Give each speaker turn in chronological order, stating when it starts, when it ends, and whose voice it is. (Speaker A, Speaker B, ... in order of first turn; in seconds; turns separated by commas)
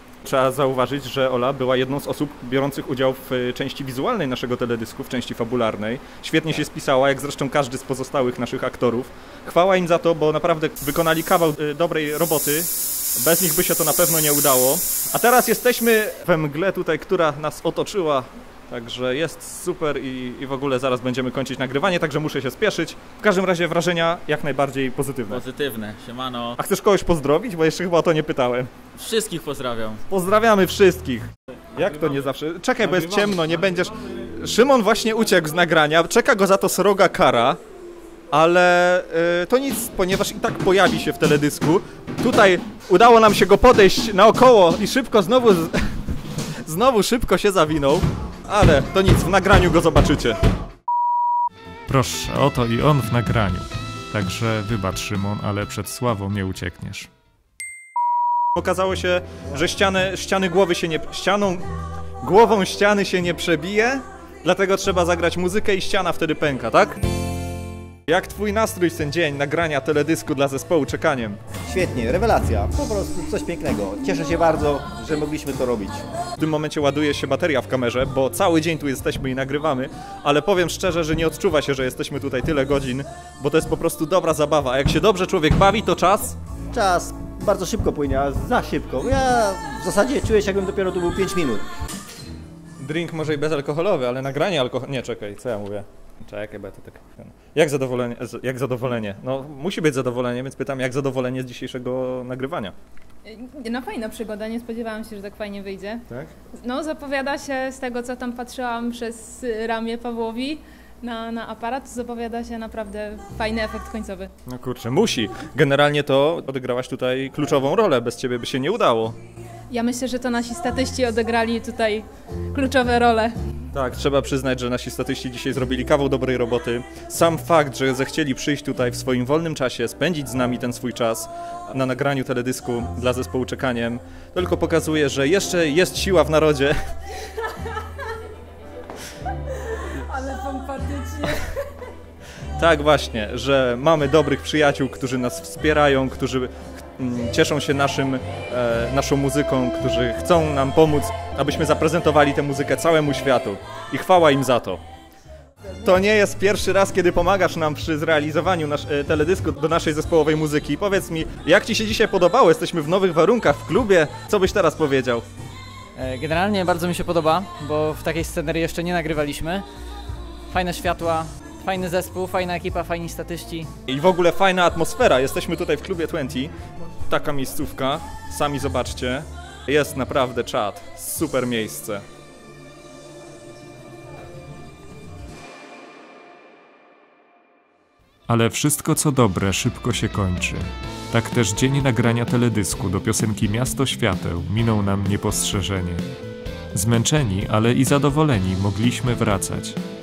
Speaker A: 0.2-25.4, Speaker B: 25.3-26.6, Speaker A: 26.6-28.7, Speaker B: 29.0-30.0, Speaker A: 30.1-37.6, Speaker A: 38.3-45.8, Speaker A: 46.6-50.4, Speaker C: 51.9-57.1, Speaker A: 58.5-61.6, Speaker A: 62.2-67.0, Speaker A: 68.1-71.4, Speaker D: 71.7-76.0, Speaker A: 76.4-86.3, Speaker D: 86.7-91.7, Speaker A: 92.8-102.7, Speaker E: 103.2-106.0, Speaker E: 106.6-114.3, Speaker A: 114.5-119.2, Speaker E: 119.7-123.3, Speaker A: 123.7-136.7, Speaker E: 140.1-141.2, Speaker A: 142.6-154.8, Speaker A: 155.8-165.2, Speaker F: 166.0-169.7, Speaker F: 170.5-173.7, Speaker A: 173.9-176.5, Speaker A: 177.1-182.0, Speaker C: 188.3-196.0, Speaker C: 196.7-199.8